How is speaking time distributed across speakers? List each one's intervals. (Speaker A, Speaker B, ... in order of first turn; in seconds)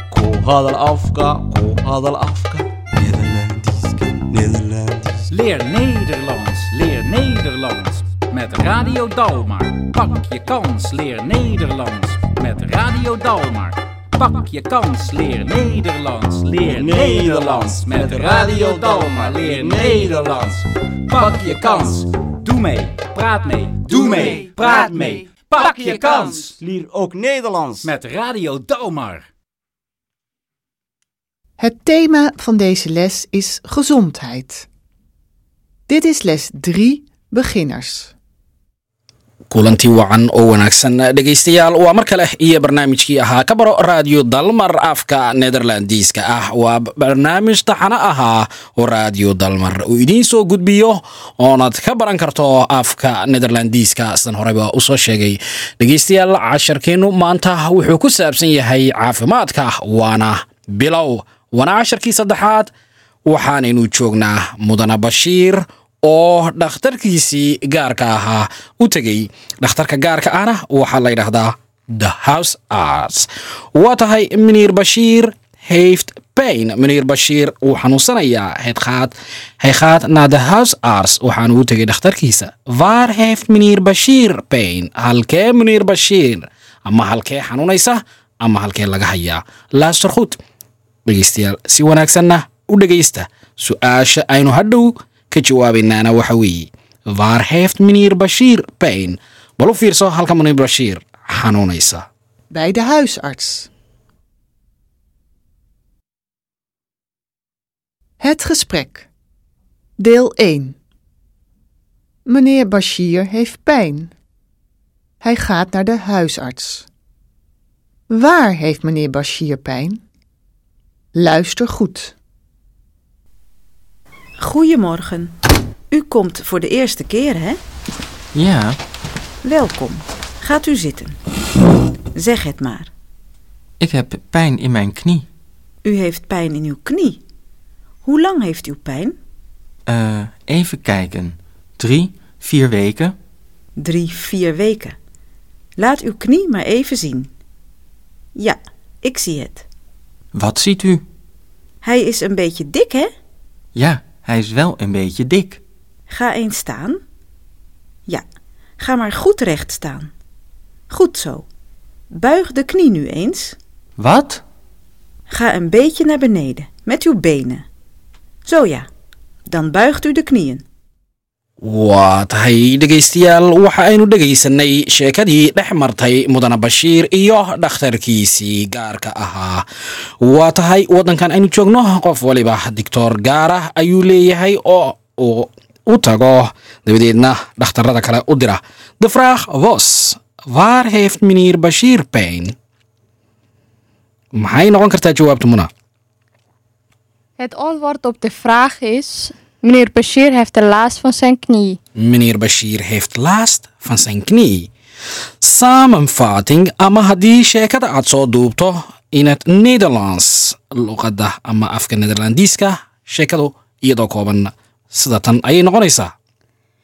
Speaker A: 0.1-5.3, 16.6-20.4, 23.9-27.9
Speaker B: 5.3-26.6, 27.8-29.3
Speaker C: 31.6-34.7, 35.9-38.1, 102.5-103.7, 108.2-109.1, 110.0-110.8, 112.3-114.1, 115.2-116.9, 118.1-120.0, 121.2-122.2
Speaker D: 39.5-62.7, 63.3-90.4, 91.1-102.1, 171.6-179.7, 180.2-192.6, 194.3-195.7, 202.0-204.7, 205.4-216.1
Speaker E: 124.4-125.3, 125.9-127.6, 129.4-131.2, 132.2-132.9, 135.8-137.2, 138.0-139.2, 143.8-145.0, 145.8-147.3, 148.4-149.7, 151.8-153.1, 156.1-157.0, 158.8-160.1, 160.9-161.5, 162.1-163.6, 165.3-167.7, 168.5-168.9, 169.5-170.6
Speaker F: 128.3-128.8, 133.8-135.3, 139.9-143.2, 150.3-151.1, 153.8-155.6, 164.0-164.4
Speaker G: 197.4-201.8